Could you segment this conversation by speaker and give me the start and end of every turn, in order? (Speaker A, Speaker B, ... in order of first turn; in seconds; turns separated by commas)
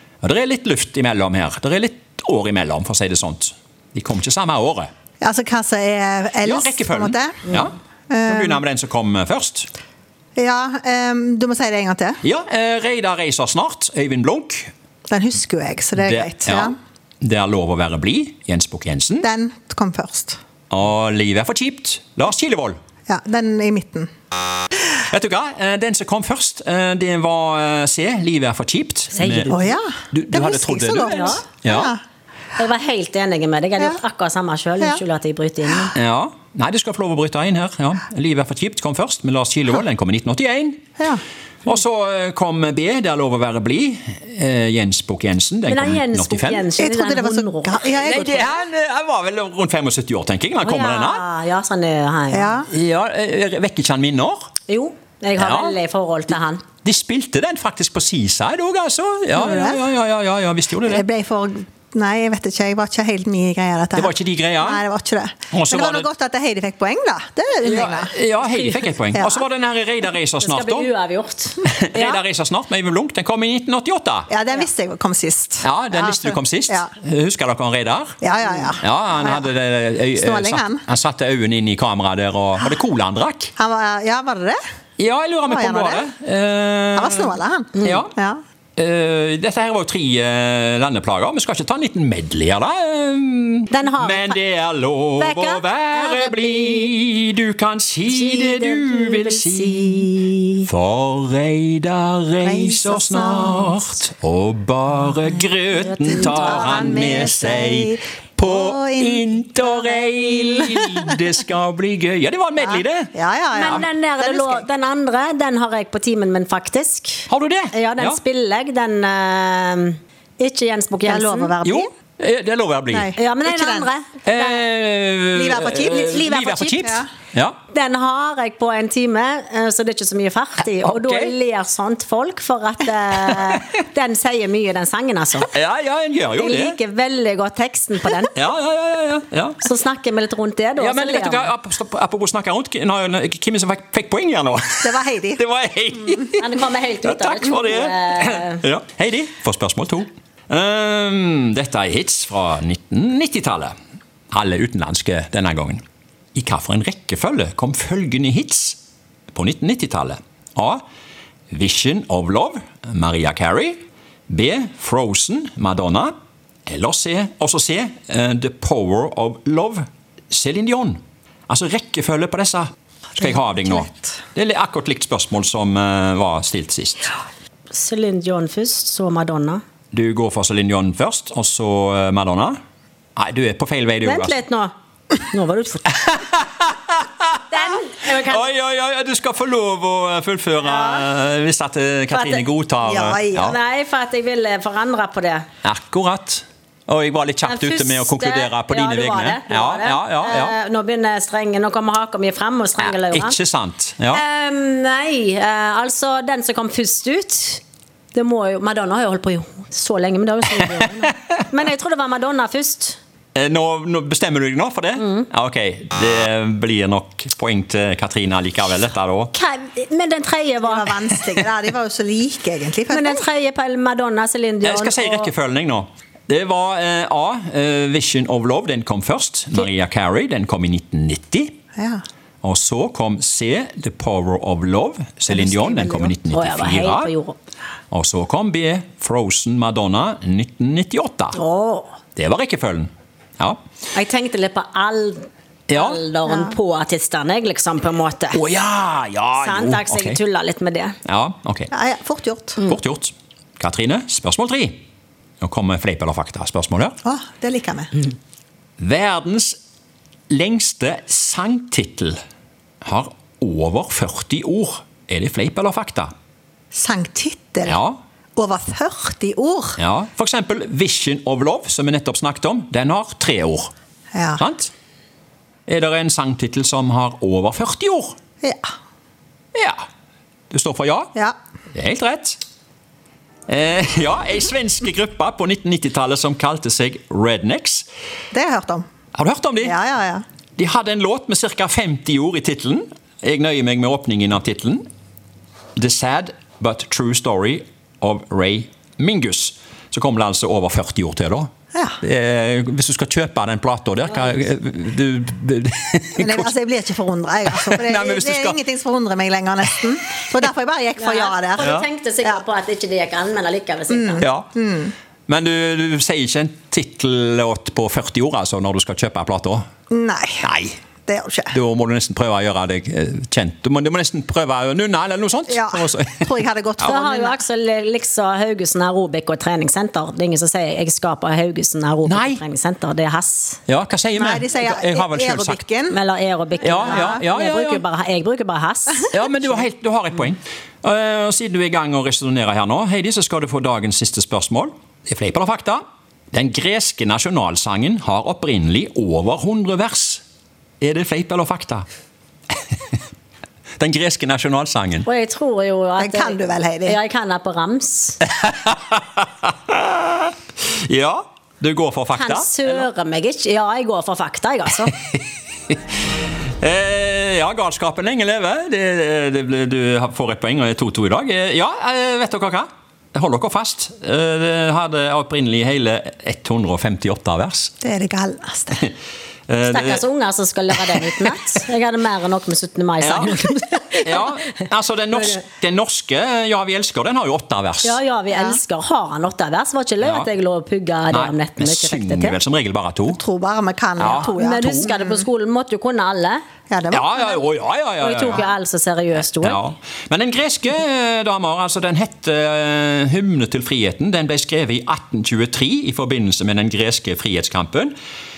Speaker A: 0.2-4.9, Speaker B: 5.2-7.5, Speaker A: 6.4-7.7, Speaker B: 8.1-8.6, Speaker A: 8.3-9.7, Speaker B: 10.4-12.2, Speaker A: 12.2-14.7, Speaker B: 15.1-16.8, Speaker A: 16.0-19.3, Speaker B: 19.2-20.4, Speaker A: 20.7-22.8, Speaker B: 23.1-24.1, Speaker A: 25.0-29.6, Speaker C: 29.1-29.8, Speaker B: 29.5-32.0, Speaker A: 30.1-31.9, Speaker C: 31.1-31.4, Speaker C: 32.6-36.0, Speaker A: 36.0-41.0, Speaker A: 41.7-46.7, Speaker C: 45.7-48.1, Speaker B: 46.8-48.7, Speaker A: 47.9-51.2, Speaker C: 50.6-52.6, Speaker B: 52.3-52.7, Speaker A: 52.7-54.5, Speaker C: 54.7-56.6, Speaker A: 55.4-55.8, Speaker A: 56.8-61.0, Speaker B: 59.3-59.8, Speaker B: 60.9-68.1, Speaker A: 63.9-64.8, Speaker A: 65.5-66.1, Speaker A: 67.6-70.9, Speaker C: 68.5-68.8, Speaker B: 69.1-69.4, Speaker C: 70.4-72.2, Speaker A: 71.6-74.3, Speaker B: 74.3-76.9, Speaker A: 75.6-78.2, Speaker B: 78.2-79.5, Speaker A: 78.8-83.5, Speaker B: 80.2-80.8, Speaker B: 83.6-84.6, Speaker A: 85.0-88.1, Speaker B: 85.5-86.1, Speaker B: 87.0-88.4, Speaker A: 88.8-100.1, Speaker C: 93.7-94.4, Speaker C: 95.2-96.9, Speaker C: 98.1-100.7, Speaker A: 100.7-113.1, Speaker B: 102.4-103.8, Speaker C: 105.8-107.2, Speaker B: 106.1-111.0, Speaker B: 113.1-114.7, Speaker C: 113.5-121.5, Speaker A: 117.3-118.2, Speaker B: 121.0-121.9, Speaker A: 121.6-123.2, Speaker B: 122.9-123.9, Speaker C: 123.2-124.6, Speaker A: 124.3-127.6, Speaker B: 125.3-127.1, Speaker C: 125.8-126.8, Speaker C: 127.7-135.5, Speaker A: 130.8-131.3, Speaker A: 133.3-133.6, Speaker A: 135.5-136.8, Speaker C: 136.3-138.4, Speaker A: 138.3-139.6, Speaker C: 139.6-141.5, Speaker A: 140.8-153.7, Speaker B: 144.8-145.4, Speaker C: 146.3-148.6, Speaker A: 154.3-155.8, Speaker A: 156.3-158.8, Speaker A: 159.3-160.8, Speaker A: 161.5-163.8, Speaker A: 164.3-166.1, Speaker A: 166.7-177.1, Speaker B: 173.2-174.2, Speaker C: 177.7-179.6, Speaker A: 179.9-182.6, Speaker A: 183.2-184.4, Speaker C: 184.0-184.7, Speaker C: 185.2-186.1, Speaker A: 186.0-187.4, Speaker C: 187.5-188.5, Speaker A: 188.2-193.6, Speaker C: 190.6-191.1, Speaker C: 192.1-192.4, Speaker B: 192.8-193.5, Speaker C: 193.3-195.5, Speaker A: 195.6-200.6, Speaker C: 197.4-203.4, Speaker A: 202.8-204.2, Speaker C: 204.1-207.6, Speaker C: 208.1-213.0, Speaker A: 213.3-219.3, Speaker C: 219.3-221.3, Speaker B: 220.6-223.2, Speaker C: 222.9-225.3, Speaker A: 224.6-231.5, Speaker B: 231.8-232.0, Speaker A: 232.4-237.1, Speaker B: 235.3-236.1, Speaker C: 236.3-237.4, Speaker A: 237.9-241.4, Speaker C: 241.3-241.9, Speaker A: 242.2-243.6, Speaker C: 243.9-248.4, Speaker A: 245.7-246.0, Speaker A: 248.3-250.2, Speaker C: 249.4-251.0, Speaker A: 251.1-251.7, Speaker B: 251.7-252.6, Speaker A: 252.6-254.8, Speaker A: 255.4-257.0, Speaker B: 257.0-257.9, Speaker A: 258.8-259.6, Speaker A: 260.3-262.2, Speaker A: 262.8-266.1, Speaker B: 266.7-267.8, Speaker A: 267.6-268.0, Speaker B: 268.4-269.8, Speaker A: 269.8-273.7, Speaker B: 274.1-274.4, Speaker A: 274.4-274.7, Speaker A: 275.7-278.2, Speaker B: 278.4-278.7, Speaker A: 279.6-279.8, Speaker A: 280.5-281.1, Speaker A: 281.8-282.4, Speaker A: 283.5-287.9, Speaker B: 288.3-288.9, Speaker A: 289.1-289.8, Speaker B: 289.6-290.2, Speaker A: 290.6-294.9, Speaker A: 295.8-301.5, Speaker A: 302.0-306.5, Speaker B: 306.2-312.4, Speaker A: 307.5-308.6, Speaker C: 311.0-314.3, Speaker A: 311.6-311.9, Speaker B: 313.9-314.9, Speaker A: 314.2-314.5, Speaker A: 315.3-319.7, Speaker B: 319.9-320.4, Speaker A: 320.4-320.8, Speaker B: 321.1-321.6, Speaker A: 321.5-327.0, Speaker B: 325.5-327.4, Speaker C: 326.8-333.6, Speaker A: 332.1-332.4, Speaker A: 333.7-335.6, Speaker B: 334.2-336.0, Speaker C: 335.9-339.1, Speaker B: 336.6-337.2, Speaker A: 336.6-337.8, Speaker A: 339.1-350.2, Speaker A: 350.8-351.9, Speaker A: 353.8-355.1, Speaker C: 355.1-358.2, Speaker B: 356.0-357.0, Speaker A: 358.4-362.9, Speaker C: 362.1-364.9, Speaker A: 366.6-377.7, Speaker B: 377.8-378.8, Speaker A: 379.5-380.0, Speaker C: 379.7-384.4, Speaker A: 380.7-381.1, Speaker A: 383.0-383.4, Speaker A: 384.0-388.0, Speaker C: 387.8-392.4, Speaker B: 388.3-388.6, Speaker A: 390.0-390.3, Speaker A: 391.1-393.2, Speaker B: 393.1-395.3, Speaker A: 394.0-394.9, Speaker C: 394.2-396.4, Speaker B: 396.7-397.4, Speaker A: 396.9-398.5, Speaker C: 398.0-399.6, Speaker A: 399.4-407.9